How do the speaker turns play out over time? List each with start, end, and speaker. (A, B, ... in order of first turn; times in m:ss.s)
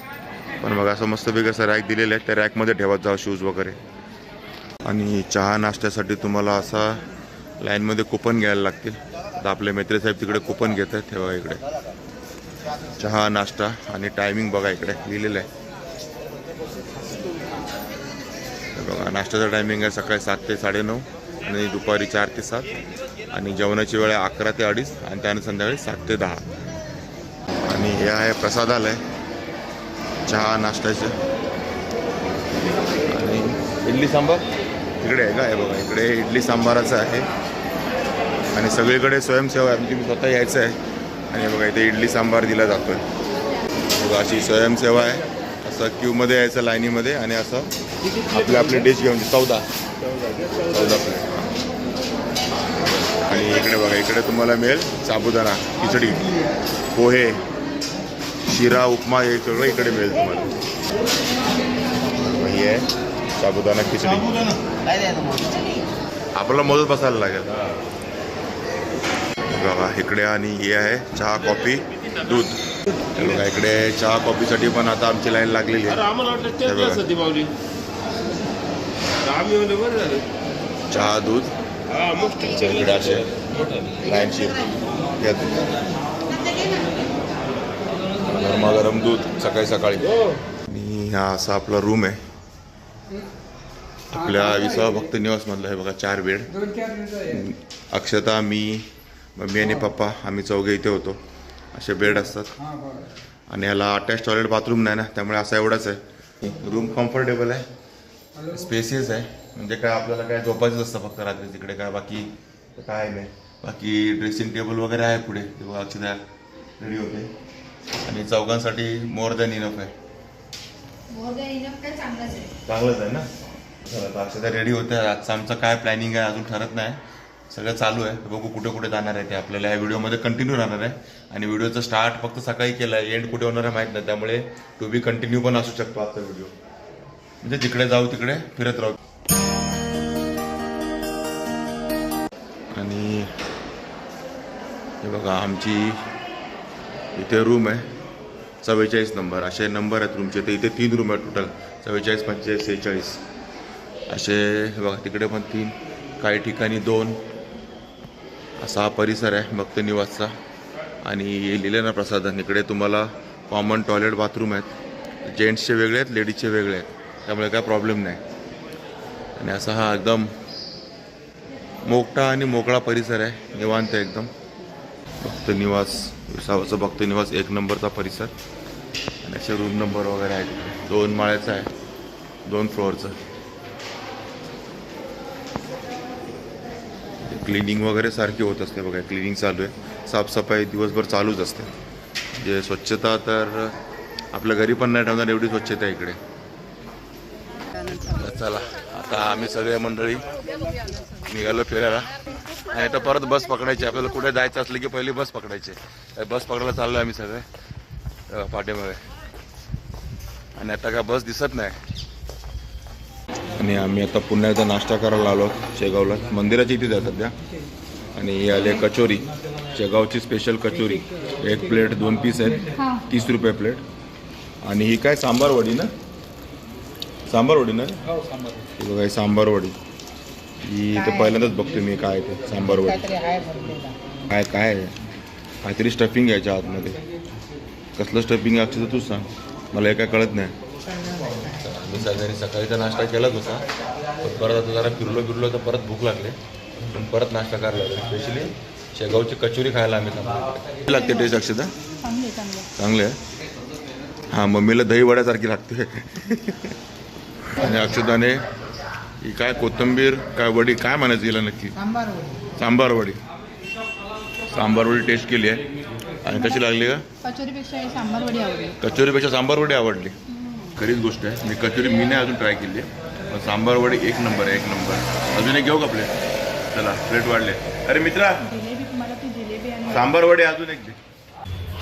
0:00.6-0:03.8 A
0:04.8-0:07.0 A
0:07.6-0:11.6 A
0:13.0-0:15.5 A
0:18.8-0:22.7 A
0:23.3-0:26.4 A
0:27.6-0:29.0 A
0:30.3-0:31.2 A
0:33.1-0:34.4 A
0:35.0-0:37.3 A
0:38.5-0:40.8 A
0:41.3-0:43.0 A
0:44.0-0:47.7 A
0:48.3-0:49.7 A
0:50.6-0:51.5 A
0:53.2-0:56.3 A
0:56.9-0:57.4 A
0:58.5-1:00.6 A
1:02.2-1:04.6 A
1:06.4-1:07.8 A
1:09.5-1:12.6 A
1:13.1-1:17.2 A
1:19.4-1:20.2 B
1:20.9-1:21.6 A
1:22.2-1:23.4 A
1:23.9-1:25.8 A
1:28.3-1:32.2 A
1:34.1-1:36.6 A
1:37.1-1:41.2 A
1:41.7-1:42.6 A
1:43.5-1:47.7 A
1:48.5-1:56.2 A
1:56.8-1:57.3 A
1:58.0-1:59.9 A
2:01.1-2:02.5 C
2:02.6-2:03.3 A
2:03.9-2:16.5 A
2:17.4-2:19.0 A
2:22.7-2:23.3 A
2:25.0-2:26.0 A
2:27.2-2:27.9 A
2:28.6-2:33.2 A
2:34.1-2:37.2 A
2:38.6-2:40.3 A
2:41.0-2:48.2 A
2:49.4-2:50.3 A
2:51.8-2:54.3 A
2:55.2-2:58.3 A
2:59.2-3:01.7 A
3:02.4-3:03.2 A
3:07.2-3:11.7 A
3:12.3-3:13.7 A
3:14.3-3:16.2 A
3:18.0-3:20.3 A
3:21.3-3:27.5 A
3:28.3-3:29.0 A
3:30.6-3:31.8 A
3:33.6-3:37.4 A
3:38.2-3:43.8 A
3:42.8-3:43.0 C
3:44.6-3:45.9 A
3:47.3-3:48.0 A
3:48.7-3:49.8 A
3:50.6-3:53.3 A
3:53.1-3:54.0 B
3:54.3-3:55.1 A
3:55.6-3:57.0 A
3:58.0-4:00.6 A
4:01.0-4:01.3 B
4:01.4-4:03.7 A
4:04.2-4:11.7 A
4:11.0-4:11.3 C
4:12.0-4:12.7 C
4:12.8-4:13.2 A
4:14.3-4:16.8 A
4:17.4-4:18.4 A
4:19.2-4:22.0 A
4:22.5-4:23.2 A
4:24.5-4:25.6 A
4:26.2-4:27.1 A
4:26.3-4:28.8 C
4:28.8-4:30.2 A
4:30.3-4:30.8 C
4:30.8-4:36.2 A
4:36.7-4:38.5 A
4:38.4-4:40.1 C
4:39.9-4:41.0 A